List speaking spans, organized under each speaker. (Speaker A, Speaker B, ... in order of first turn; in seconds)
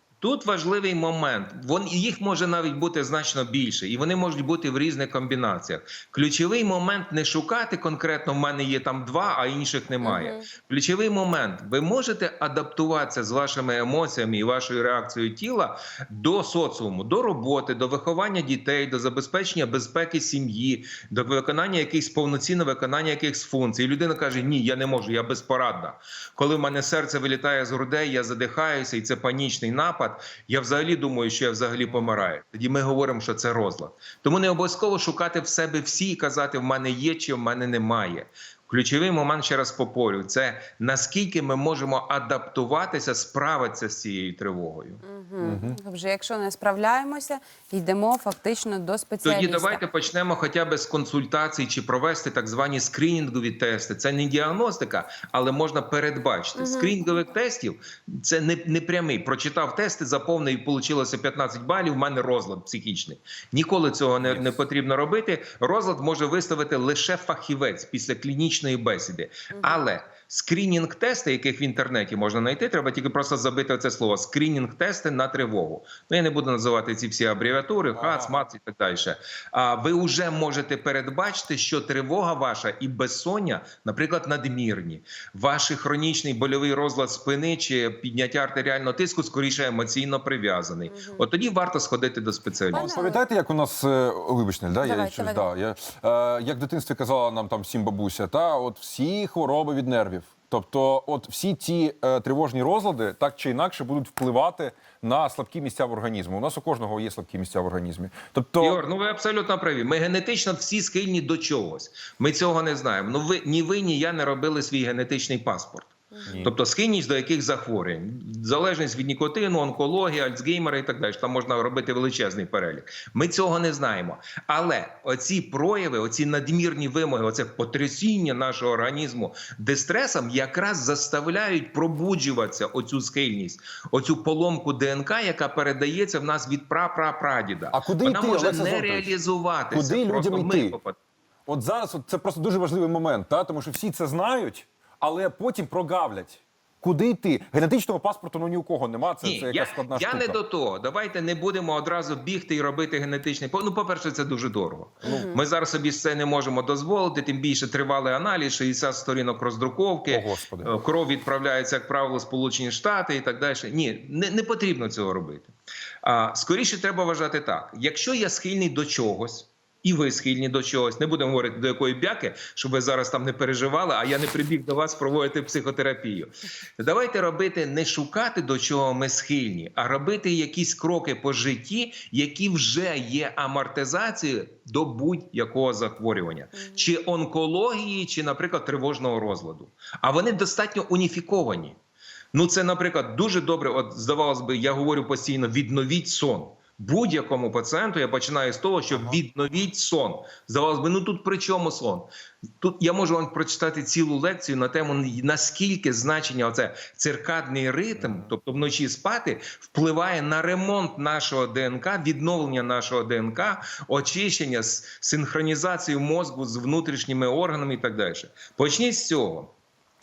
Speaker A: 0.2-45.0, 49.2-92.9, 108.6-141.0, 149.2-165.5, 166.0-191.8, 192.3-202.1, 202.6-219.5
Speaker B: 10.0-10.5, 45.0-49.8, 56.5-57.0, 69.5-69.8, 90.9-91.3, 92.7-93.2, 94.8-95.5, 116.1-116.4, 155.0-155.4
Speaker C: 45.4-45.8, 77.9-78.4, 92.7-108.8, 116.2-116.5, 137.7-139.1, 139.7-140.8, 141.5-150.4, 160.1-160.7, 208.0-208.3